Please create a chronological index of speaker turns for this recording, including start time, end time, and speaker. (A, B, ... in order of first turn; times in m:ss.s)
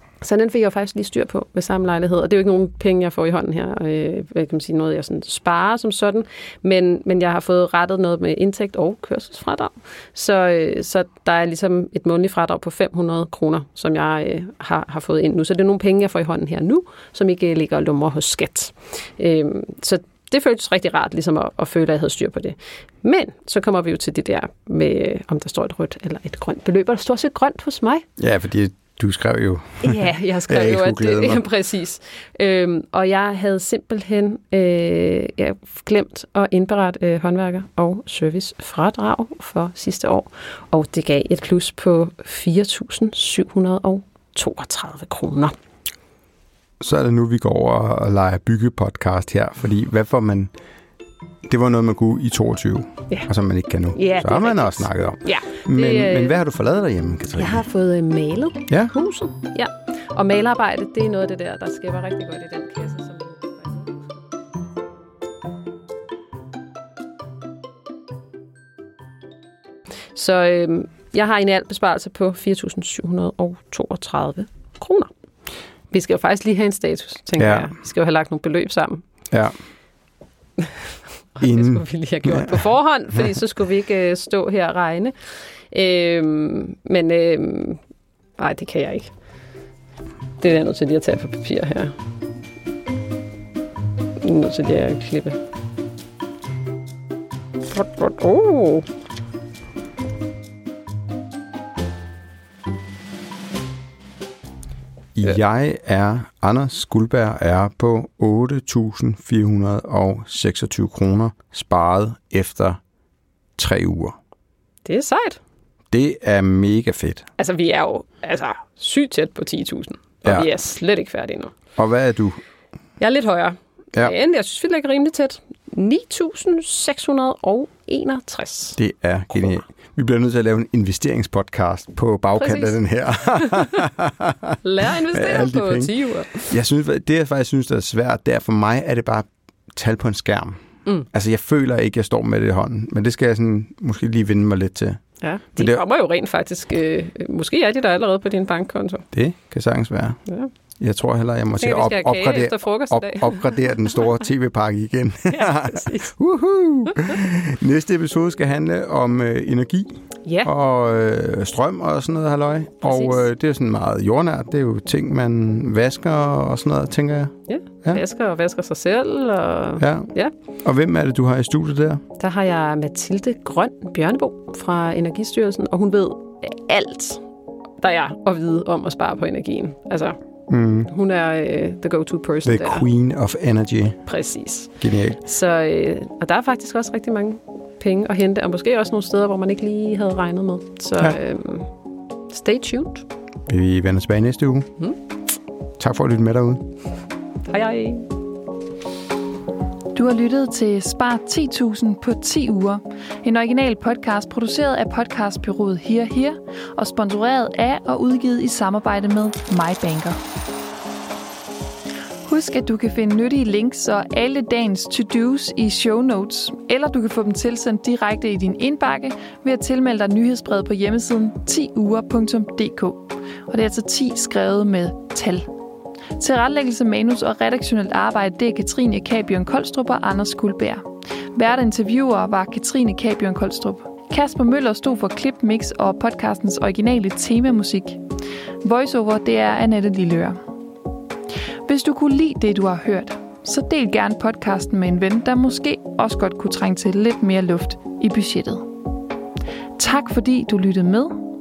0:00.2-0:28.1 A
0:28.2-0:31.4 B
0:29.8-0:45.6 A
0:46.8-0:50.5 B
0:51.5-0:57.6 B
0:54.0-0:56.4 A
0:57.4-1:04.1 A
1:10.2-1:15.1 A
1:15.9-1:19.0 A
1:17.4-1:17.7 B
1:20.6-1:27.8 A
1:21.4-1:22.6 B
1:28.4-1:29.1 A
1:30.4-1:32.0 A
1:34.2-1:35.4 A
1:37.7-1:38.9 A
1:45.2-1:52.8 B
1:53.6-1:54.2 B
1:54.8-1:55.4 A
1:55.9-1:57.3 B
1:57.4-2:01.6 A
2:00.2-2:00.5 B
2:01.8-2:02.4 B
2:03.0-2:08.8 A
2:08.8-2:14.6 B
2:12.4-2:13.7 A
2:14.6-2:16.5 A
2:15.1-2:25.8 B
2:25.2-2:29.0 A
2:29.1-2:30.2 B
2:30.8-2:48.0 B
2:31.6-2:33.6 A
2:35.3-2:36.1 A
2:42.8-2:43.2 A
2:47.5-2:50.3 A
2:49.8-2:50.1 B
2:50.6-2:52.0 B
2:52.2-2:57.2 A
2:57.8-3:00.2 A
3:00.5-3:00.9 B
3:00.9-3:02.9 A
3:02.4-3:04.1 B
3:04.1-3:11.7 A
3:04.8-3:05.2 B
3:12.3-3:13.1 A
3:13.5-3:14.7 B
3:15.8-3:16.6 B
3:17.5-3:18.1 A
3:19.9-3:30.2 C
3:32.3-3:45.5 C
3:46.2-3:58.0 C
3:58.6-4:00.4 C
4:01.6-4:08.7 C
4:09.8-4:11.3 C